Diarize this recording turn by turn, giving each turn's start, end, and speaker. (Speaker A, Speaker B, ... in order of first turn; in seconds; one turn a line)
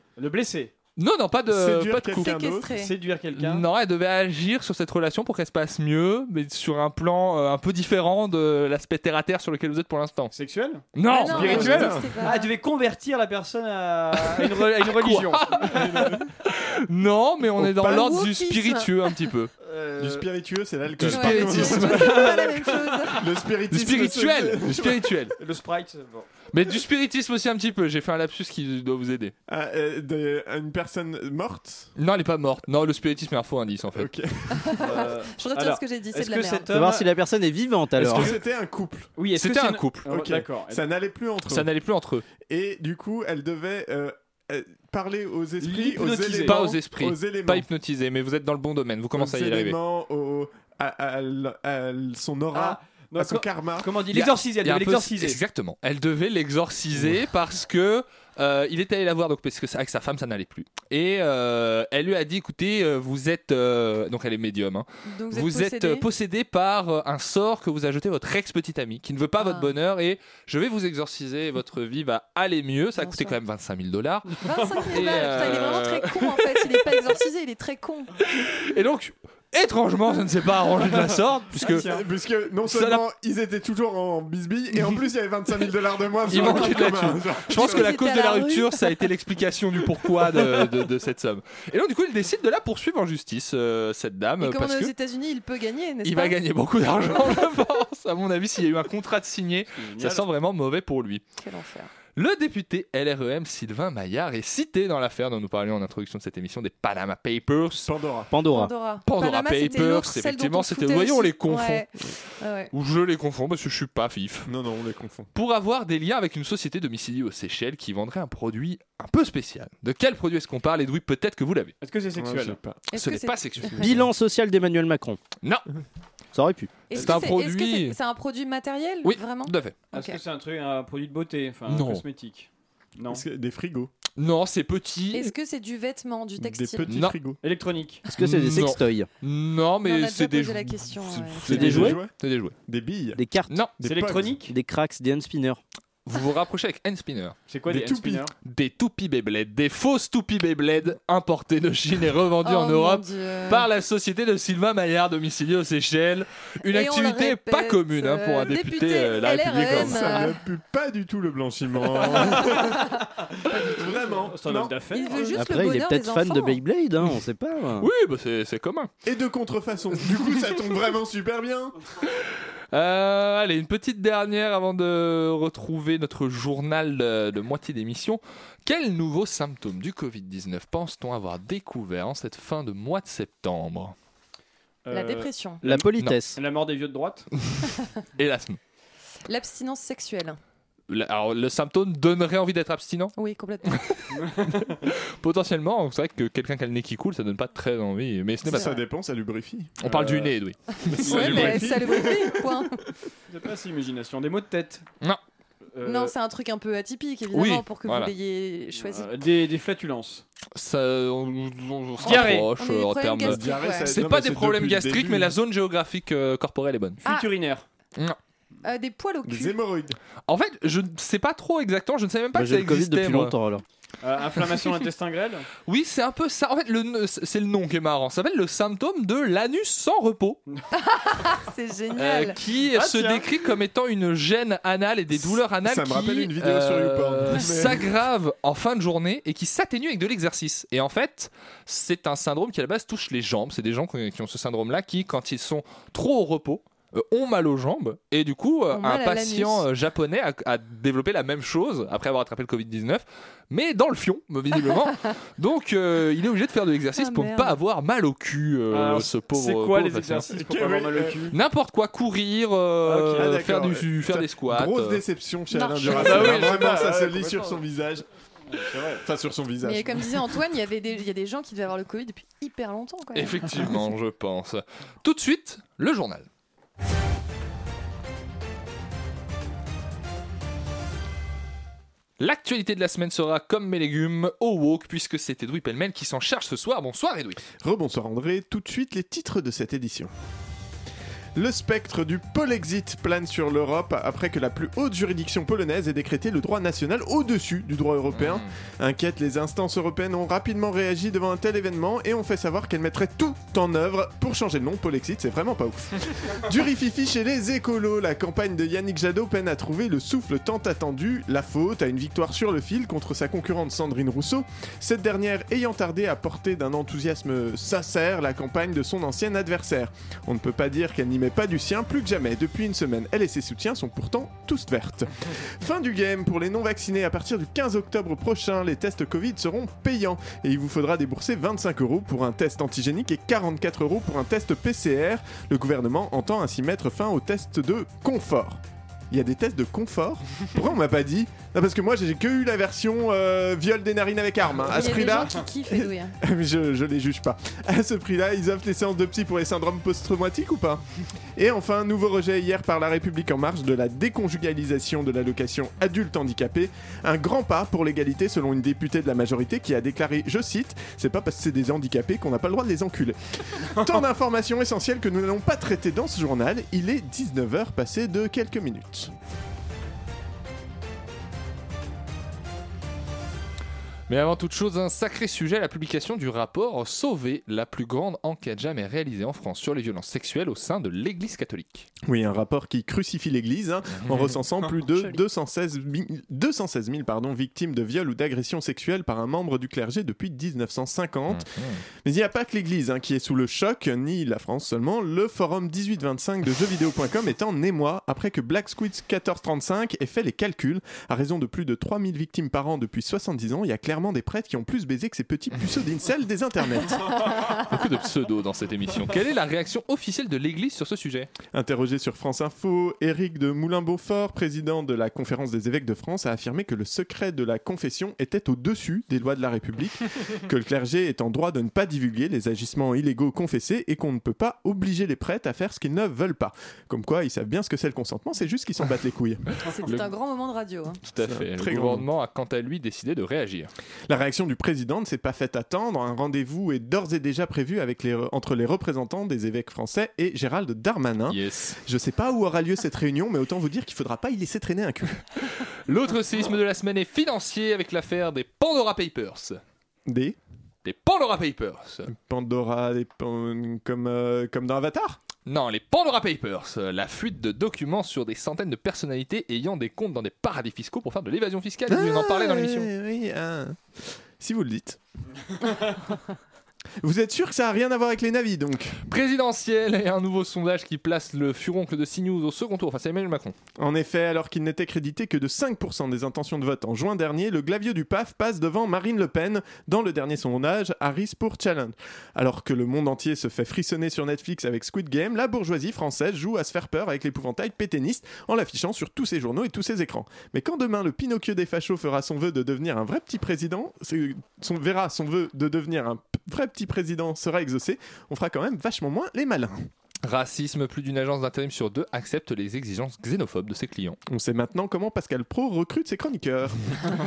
Speaker A: 0.2-0.7
Speaker B: 1.0-2.3
Speaker C: 1.5-2.7
Speaker D: 2.1-2.9
Speaker A: 2.7-3.6
Speaker B: 3.4-10.3
Speaker A: 10.3-16.2
Speaker B: 10.9-11.9
Speaker D: 11.1-12.5
Speaker C: 11.4-12.2
Speaker B: 14.3-19.5
Speaker C: 15.7-16.3
Speaker C: 17.6-18.1
Speaker D: 17.8-19.2
Speaker A: 19.6-20.3
Speaker C: 20.0-22.6
Speaker B: 21.0-22.1
Speaker D: 21.1-23.3
Speaker A: 21.5-23.1
Speaker C: 23.1-25.1
Speaker B: 23.7-25.4
Speaker A: 25.4-26.3
Speaker B: 26.5-29.3
Speaker C: 29.5-31.9
Speaker B: 32.0-34.1
Speaker C: 34.0-35.1
Speaker D: 34.6-36.7
Speaker A: 34.8-37.1
Speaker E: 36.7-38.3
Speaker C: 38.0-39.1
Speaker A: 38.0-38.4
Speaker A: 39.2-40.8
Speaker B: 39.4-40.1
Speaker C: 40.1-41.7
Speaker B: 41.5-42.2
Speaker C: 42.4-47.7
Speaker A: 45.6-46.6
Speaker B: 46.4-49.8
Speaker C: 49.2-53.9
Speaker A: 52.5-55.4
Speaker B: 54.1-77.0
Speaker D: 65.1-66.0
Speaker D: 69.4-69.7
Speaker D: 73.0-73.4
Speaker D: 74.4-78.1
Speaker A: 74.5-75.4
Speaker B: 78.2-81.9
Speaker C: 81.6-87.9
Speaker A: 81.7-82.0
Speaker B: 82.7-83.0
Speaker B: 86.3-94.9
Speaker D: 86.4-86.6
Speaker D: 87.5-89.0
Speaker D: 94.4-96.4
Speaker B: 96.0-101.2
Speaker A: 99.8-100.3
Speaker D: 101.4-101.9
Speaker B: 102.2-107.9
Speaker C: 107.9-108.3
Speaker E: 108.3-108.7
Speaker D: 108.5-112.7
Speaker B: 109.0-111.8
Speaker B: 112.7-114.5
Speaker C: 114.5-115.3
Speaker B: 115.3-121.7
Speaker A: 121.8-122.6
Speaker C: 122.2-122.9
Speaker D: 122.9-123.9
Speaker B: 123.0-124.0
Speaker E: 123.8-125.2
Speaker E: 126.3-126.7
Speaker D: 126.9-130.2
Speaker B: 126.9-128.0
Speaker B: 129.0-129.8
Speaker A: 129.9-133.2
Speaker B: 131.7-132.0
Speaker C: 133.1-133.9
Speaker B: 134.2-135.3
Speaker D: 135.1-136.9
Speaker C: 136.4-137.4
Speaker B: 136.9-137.2
Speaker A: 137.4-138.0
Speaker E: 138.1-139.1
Speaker B: 138.1-142.6
Speaker D: 139.8-141.8
Speaker C: 141.5-142.1
Speaker E: 141.5-142.0
Speaker C: 142.7-143.2
Speaker E: 143.2-143.6
Speaker C: 143.8-144.4
Speaker A: 143.8-144.5
Speaker E: 144.5-145.6
Speaker B: 146.1-147.4
Speaker A: 147.5-148.3
Speaker C: 147.7-148.2
Speaker B: 148.4-160.2
Speaker D: 152.4-153.7
Speaker D: 156.7-160.4
Speaker C: 159.7-162.8
Speaker D: 162.1-163.0
Speaker A: 162.3-162.8
Speaker D: 163.5-164.3
Speaker C: 163.6-164.8
Speaker A: 164.1-165.3
Speaker D: 164.9-166.6
Speaker E: 165.3-167.9
Speaker B: 167.8-168.9
Speaker C: 169.1-171.8
Speaker B: 172.2-183.9
Speaker A: 184.8-187.3
Speaker D: 184.9-185.6
Speaker E: 185.6-186.4
Speaker B: 188.2-188.6
Speaker D: 189.3-190.4
Speaker B: 190.9-193.1
Speaker D: 193.2-193.9
Speaker B: 193.7-194.0
Speaker A: 194.1-194.9
Speaker B: 194.9-198.7
Speaker D: 198.5-198.8
Speaker C: 198.5-199.8
Speaker B: 199.8-201.6
Speaker A: 199.9-200.3
Speaker C: 200.9-202.5
Speaker D: 201.0-202.8
Speaker A: 201.0-202.0
Speaker A: 203.3-204.9
Speaker A: 205.7-206.2
Speaker D: 205.8-209.1
Speaker B: 207.3-208.1
Speaker A: 208.7-210.2
Speaker B: 210.6-217.0
Speaker A: 212.0-212.5
Speaker D: 212.0-213.9
Speaker C: 213.2-215.4
Speaker D: 217.0-217.3
Speaker A: 217.0-217.7
Speaker D: 218.6-219.6
Speaker C: 219.3-220.0
Speaker B: 220.3-223.3
Speaker E: 222.3-223.6
Speaker A: 224.0-225.5
Speaker B: 225.7-230.4
Speaker D: 230.8-232.4
Speaker B: 231.9-260.3
Speaker A: 232.7-233.3
Speaker C: 235.3-237.9
Speaker D: 248.7-249.7
Speaker D: 257.0-257.6
Speaker A: 258.7-261.4
Speaker C: 260.4-261.4
Speaker B: 261.3-265.0
Speaker A: 262.9-263.4
Speaker C: 263.1-268.1
Speaker D: 265.5-266.5
Speaker A: 265.9-267.6
Speaker A: 268.5-269.0
Speaker C: 269.0-270.1
Speaker D: 269.6-273.8
Speaker B: 273.1-276.3
Speaker B: 282.2-287.4
Speaker C: 287.6-290.1
Speaker C: 291.4-338.6
Speaker B: 298.1-298.5
Speaker C: 339.1-350.8
Speaker D: 344.7-346.2
Speaker A: 344.8-345.4
Speaker C: 351.4-369.1
Speaker B: 374.1-381.9
Speaker C: 382.1-407.4
Speaker B: 383.9-384.4
Speaker B: 391.3-391.8
Speaker B: 407.4-411.3
Speaker C: 411.5-429.6
Speaker D: 429.6-431.0
Speaker B: 431.0-433.7
Speaker C: 431.2-432.1
Speaker C: 434.1-445.2
Speaker B: 441.3-441.8
Speaker B: 445.9-449.6
Speaker C: 450.1-450.4
Speaker B: 450.8-452.1
Speaker C: 452.1-455.2
Speaker B: 455.5-462.9
Speaker C: 461.9-465.0
Speaker C: 467.0-469.0
Speaker B: 469.1-473.6
Speaker C: 473.8-499.9
Speaker B: 500.2-504.2
Speaker C: 504.3-507.1